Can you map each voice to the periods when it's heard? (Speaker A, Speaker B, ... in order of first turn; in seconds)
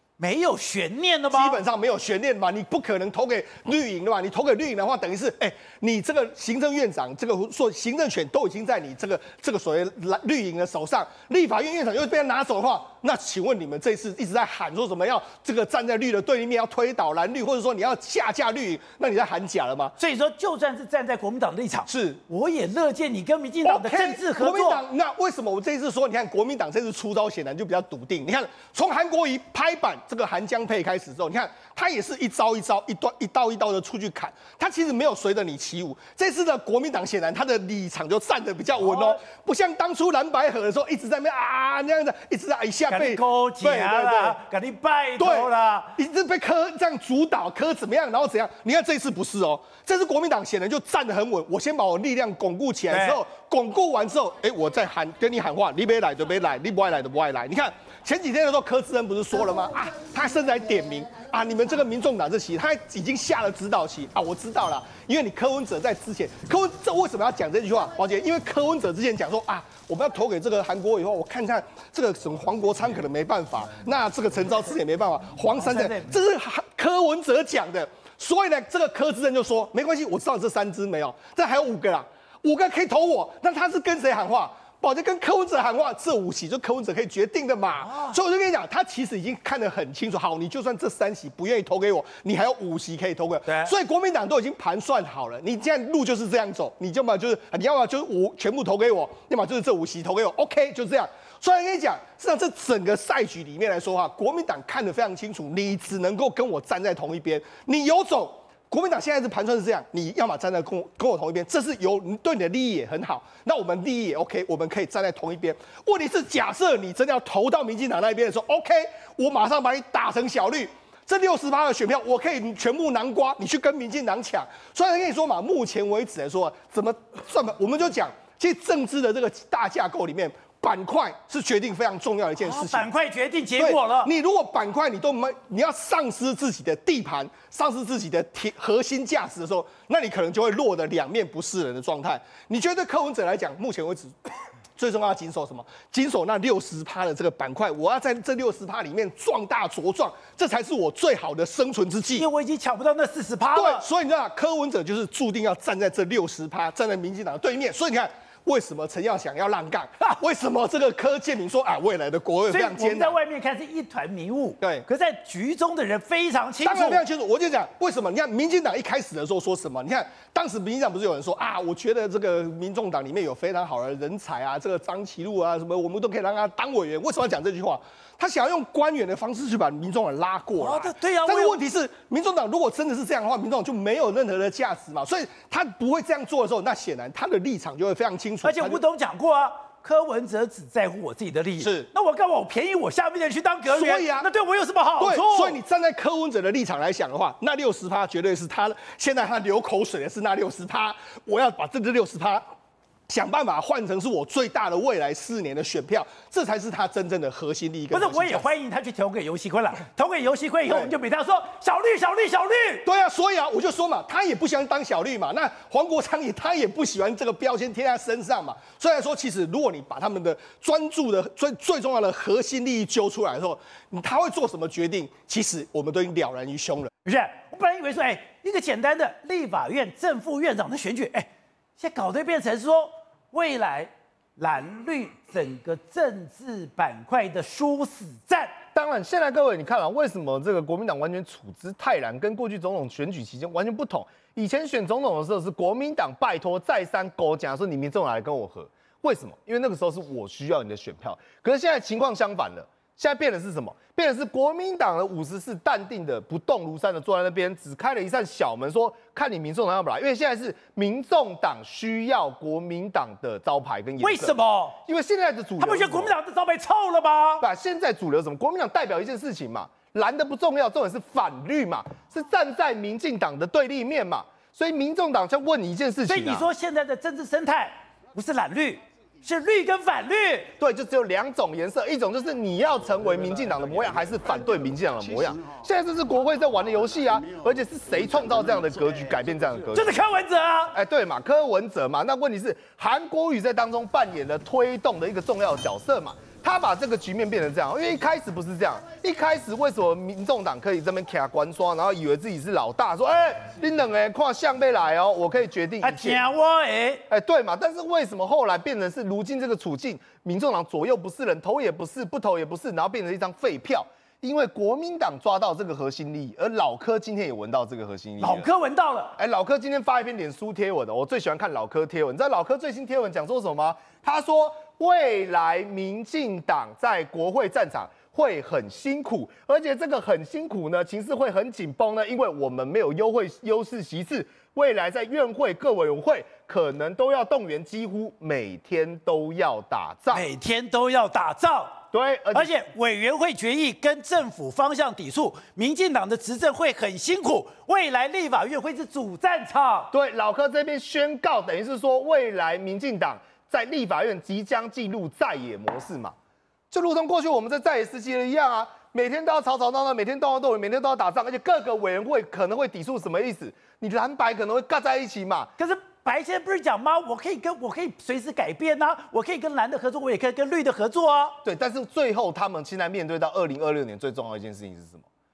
Speaker A: 0.2-1.6, 20.0-24.8, 38.8-39.2, 42.9-46.0, 52.9-53.2, 75.5-76.1, 87.9-88.2, 93.5-93.7, 132.4-134.1, 152.2-153.8, 162.5-167.0, 180.6-181.6, 188.4-195.6, 207.9-212.9, 227.1-238.6, 264.0-264.8, 265.6-267.4, 276.1-280.5, 289.7-290.8, 305.8-307.0, 318.2-319.2, 340.1-341.8, 342.3-349.9, 365.6-371.4
Speaker B: 1.3-19.9, 21.9-22.2, 23.6-44.4, 45.2-132.9, 133.6-152.3, 153.5-163.2, 166.6-188.8, 191.6-191.9, 193.7-194.3, 195.0-202.4, 203.1-208.5, 212.8-226.9
Speaker C: 238.7-266.1, 267.4-276.5, 280.6-289.9, 290.7-306.2, 307.1-318.5, 319.2-340.2, 341.9-342.5, 349.9-356.1, 356.7-365.5, 371.4-375.1